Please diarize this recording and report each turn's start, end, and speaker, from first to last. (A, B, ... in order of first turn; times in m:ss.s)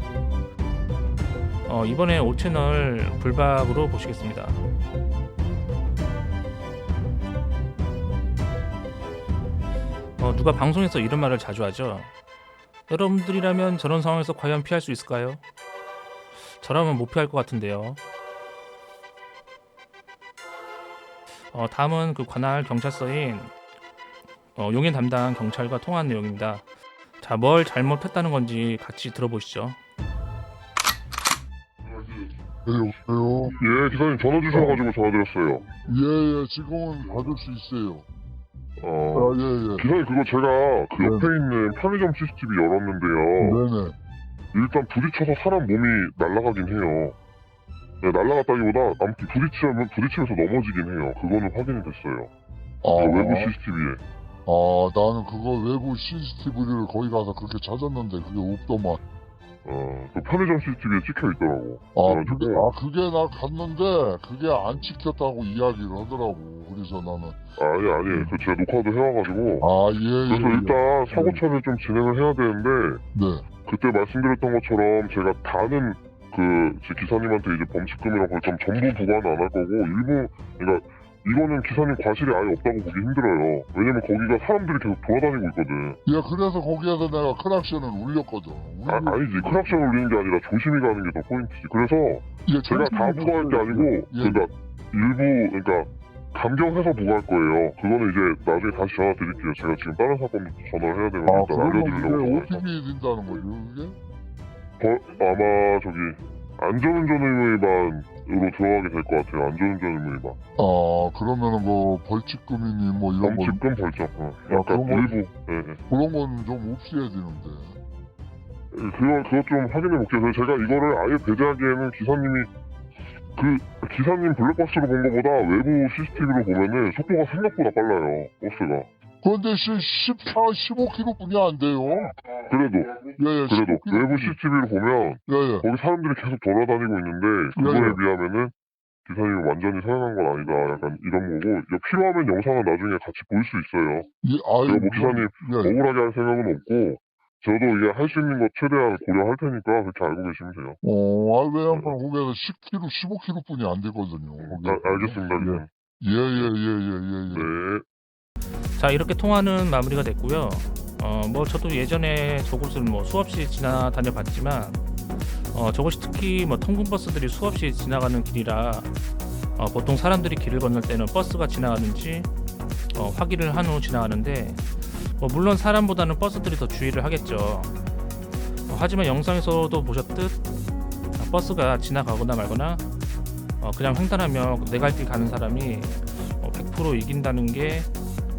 0:01.6-0:04.6 A
0:10.2-0:12.1 A
0:12.9-0:15.4 A
0:16.5-0:18.0 A
0:21.5-0:23.5 A
0:24.6-0:26.6 A
0:27.2-0:29.8 A
0:32.6-0:33.6 B
0:33.6-0:35.7 C
0:34.5-0:34.8 B
0:35.8-0:38.0 B
0:38.8-0:43.6 C
0:39.1-0:39.9 B
0:41.0-0:41.3 B
0:43.4-0:44.0 B
0:44.5-0:47.2 C
0:48.0-0:52.3 C
0:52.8-0:53.5 B
0:52.9-0:54.0 C
0:54.4-0:59.0 B
0:59.6-1:02.7 C
1:01.9-1:07.4 B
1:07.6-1:09.7 C
1:08.1-1:08.4 B
1:09.6-1:11.4 B
1:10.2-1:13.0 C
1:13.1-1:13.4 B
1:13.6-1:26.0 C
1:26.0-1:29.8 B
1:28.8-1:42.6 C
1:32.4-1:34.5 B
1:41.2-1:44.0 B
1:44.8-1:50.4 C
1:50.6-1:53.6 B
1:53.2-1:55.8 C
1:54.5-1:55.2 B
1:55.9-1:57.8 B
1:58.7-2:02.5 C
2:03.4-2:08.9 C
2:09.2-2:12.1 B
2:12.4-2:24.1 C
2:13.2-2:14.4 B
2:15.3-2:15.6 B
2:17.6-2:18.0 B
2:24.2-2:25.8 B
2:24.6-2:30.8 C
2:30.8-2:37.5 B
2:34.4-2:35.7 C
2:37.3-2:37.8 C
2:38.8-2:44.8 A
2:45.5-2:48.9 A
2:49.6-2:52.3 A
2:52.9-2:57.7 A
2:58.7-3:00.4 A
3:01.2-3:02.8 A
3:03.6-3:07.9 A